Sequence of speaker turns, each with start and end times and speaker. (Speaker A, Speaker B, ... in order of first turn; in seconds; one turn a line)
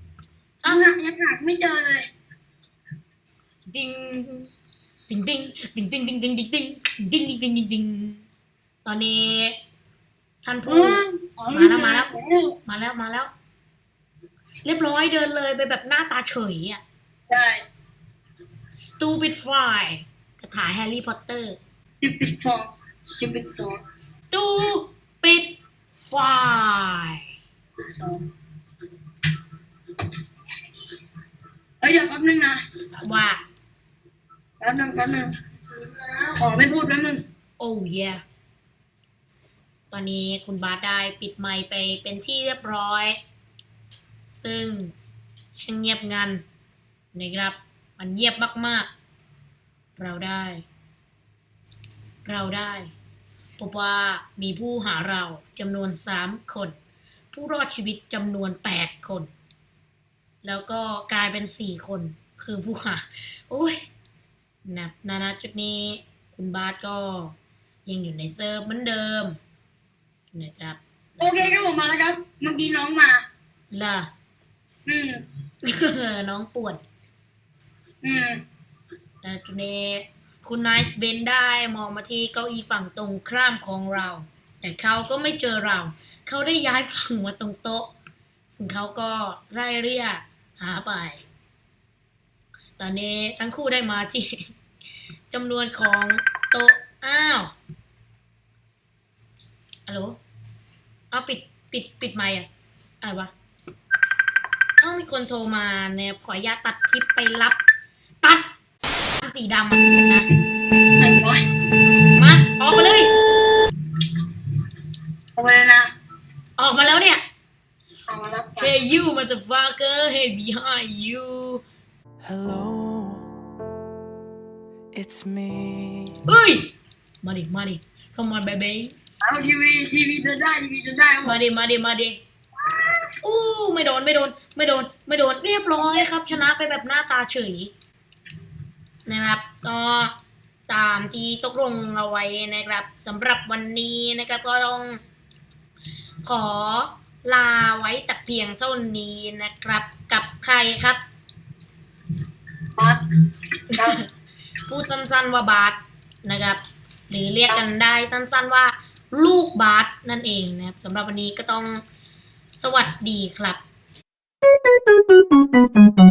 Speaker A: 0.6-0.9
Speaker B: 0.7-2.1
Speaker A: 3.7-4.5
Speaker A: 5.1-8.2
Speaker A: 8.8-9.6
Speaker A: 10.4-12.1
Speaker B: 10.7-12.6
Speaker A: 12.7-13.3
Speaker A: 14.7-16.8
Speaker B: 17.3-17.6
Speaker A: 18.8-21.6
Speaker B: 22.0-23.8
Speaker A: 24.0-27.2
Speaker B: 27.9-28.2
Speaker B: 31.8-32.6
Speaker A: 33.0-33.4
Speaker B: 34.6-35.3
Speaker B: 36.2-37.2
Speaker A: 37.6-38.2
Speaker A: 39.9-43.2
Speaker A: 44.3-44.9
Speaker A: 45.6-46.4
Speaker A: 47.1-48.9
Speaker A: 50.0-50.6
Speaker A: 52.2-52.9
Speaker A: 53.6-56.8
Speaker A: 57.3-59.3
Speaker A: 60.4-63.8
Speaker A: 64.7-69.4
Speaker A: 70.3-71.5
Speaker B: 71.2-73.3
Speaker A: 73.7-74.1
Speaker B: 74.9-75.2
Speaker A: 75.6-76.8
Speaker B: 78.0-78.4
Speaker A: 79.2-87.9
Speaker A: 88.5-91.2
Speaker A: 92.8-94.5
Speaker A: 95.3-97.5
Speaker A: 99.9-100.2
Speaker A: 101.1-102.5
Speaker A: 103.0-103.3
Speaker A: 104.8-107.6
Speaker A: 108.2-108.5
Speaker A: 109.2-110.3
Speaker B: 111.0-111.4
Speaker A: 112.1-113.1
Speaker B: 115.3-115.9
Speaker A: 116.6-117.2
Speaker B: 118.1-118.7
Speaker A: 118.6-121.6
Speaker C: 122.2-123.3
Speaker C: 124.9-126.2
Speaker A: 126.3-128.9
Speaker B: 129.2-131.4
Speaker A: 131.2-132.2
Speaker B: 132.6-133.1
Speaker A: 133.2-137.7
Speaker A: 139.1-140.1
Speaker A: 140.7-145.0
Speaker A: 146.2-151.0
Speaker B: 152.7-153.0
Speaker B: 153.7-154.0
Speaker A: 153.8-154.1
Speaker A: 154.7-161.8
Speaker A: 162.6-163.6